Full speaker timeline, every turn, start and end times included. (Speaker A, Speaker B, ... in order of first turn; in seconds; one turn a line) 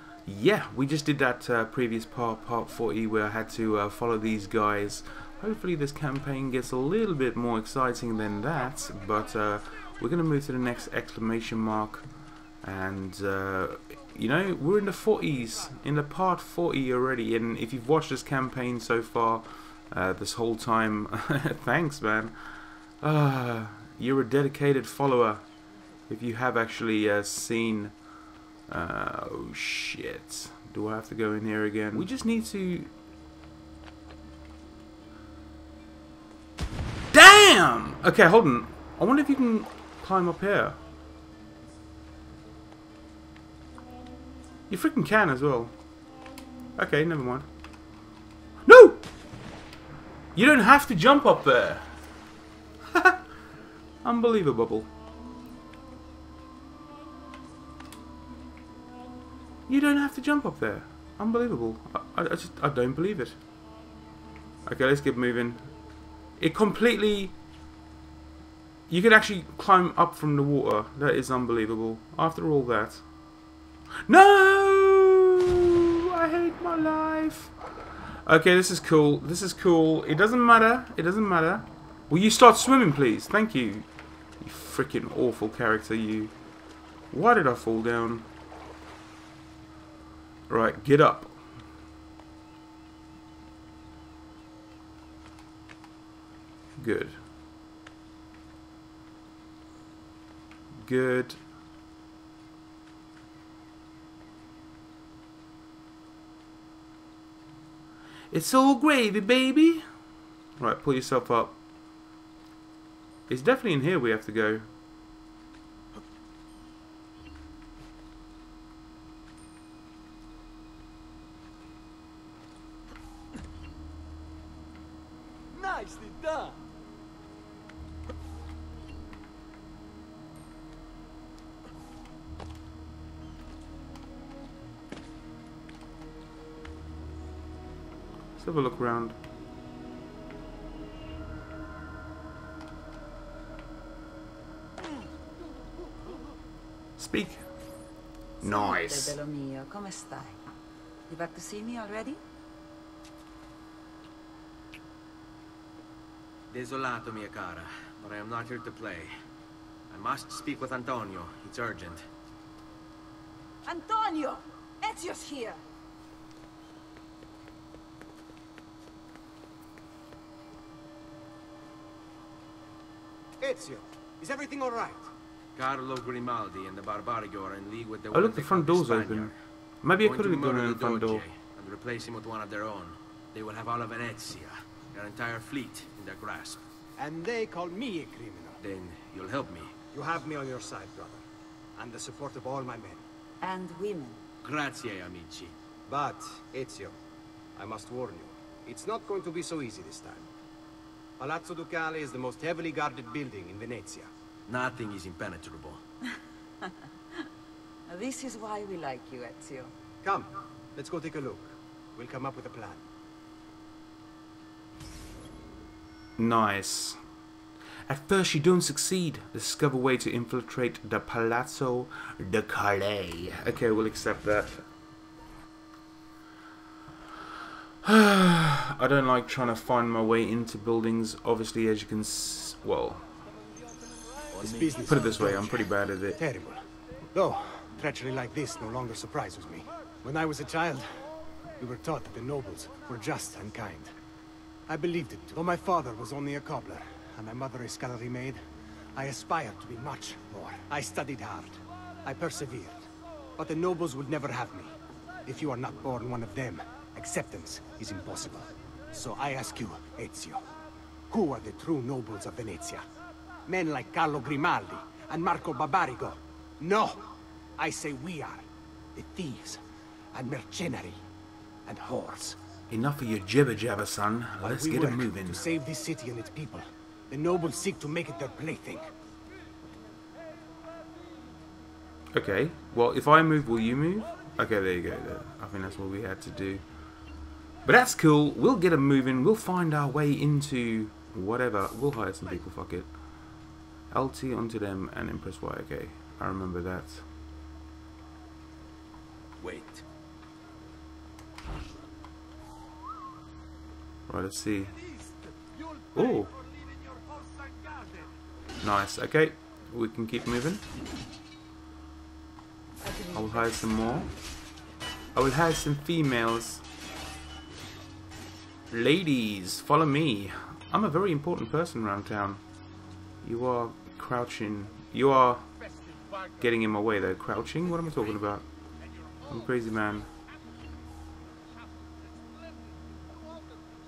Speaker A: 0.2-25.4
Speaker A: 26.1-28.0
Speaker A: 28.7-32.9
Speaker A: 37.1-40.8
Speaker A: 44.7-45.7
Speaker A: 46.8-47.5
Speaker A: 48.6-49.0
Speaker A: 50.3-51.9
Speaker A: 52.9-53.2
Speaker A: 54.0-54.9
Speaker A: 59.7-63.4
Speaker A: 64.6-65.7
Speaker A: 66.4-67.3
Speaker A: 68.9-73.0
Speaker A: 74.1-77.5
Speaker A: 78.2-83.9
Speaker A: 84.4-86.3
Speaker A: 87.1-88.3
Speaker A: 90.5-91.4
Speaker A: 96.8-97.2
Speaker A: 100.7-101.4
Speaker A: 108.3-109.8
Speaker A: 110.6-111.6
Speaker A: 113.3-114.7
Speaker B: 125.5-126.6
Speaker A: 138.4-139.1
Speaker A: 147.0-147.5
Speaker A: 148.4-149.2
Speaker C: 148.4-150.4
Speaker C: 151.1-152.2
Speaker B: 156.5-159.1
Speaker B: 159.9-162.0
Speaker C: 163.6-165.6
Speaker D: 173.4-175.1
Speaker B: 175.6-179.3
Speaker A: 178.1-181.2
Speaker B: 180.0-186.6
Speaker D: 187.0-188.6
Speaker B: 188.6-189.7
Speaker D: 189.9-191.2
Speaker D: 191.8-193.0
Speaker C: 193.4-194.2
Speaker B: 194.4-195.5
Speaker D: 195.9-196.9
Speaker D: 197.6-200.3
Speaker D: 201.2-204.1
Speaker B: 204.5-205.8
Speaker C: 207.9-209.7
Speaker D: 210.0-212.8
Speaker A: 216.2-217.0
Speaker A: 217.9-224.7
Speaker A: 227.8-233.1
Speaker B: 234.3-234.8
Speaker D: 234.4-243.9
Speaker A: 234.9-236.2
Speaker D: 244.7-248.4
Speaker D: 248.9-254.7
Speaker D: 255.2-260.4
Speaker D: 261.1-262.8
Speaker D: 263.5-269.6
Speaker D: 270.1-271.0
Speaker D: 271.6-272.4
Speaker A: 272.7-275.4
Speaker D: 274.4-278.8
Speaker A: 282.1-286.6
Speaker A: 287.6-293.3
Speaker A: 293.9-297.0
Speaker B: 299.4-299.8
Speaker A: 304.1-304.8
Speaker A: 305.9-306.3
Speaker A: 308.6-310.6
Speaker C: 312.8-313.5
Speaker A: 313.1-314.1
Speaker A: 315.1-316.6
Speaker A: 318.7-322.4
Speaker A: 323.2-325.5
Speaker A: 326.3-328.4
Speaker A: 329.2-330.1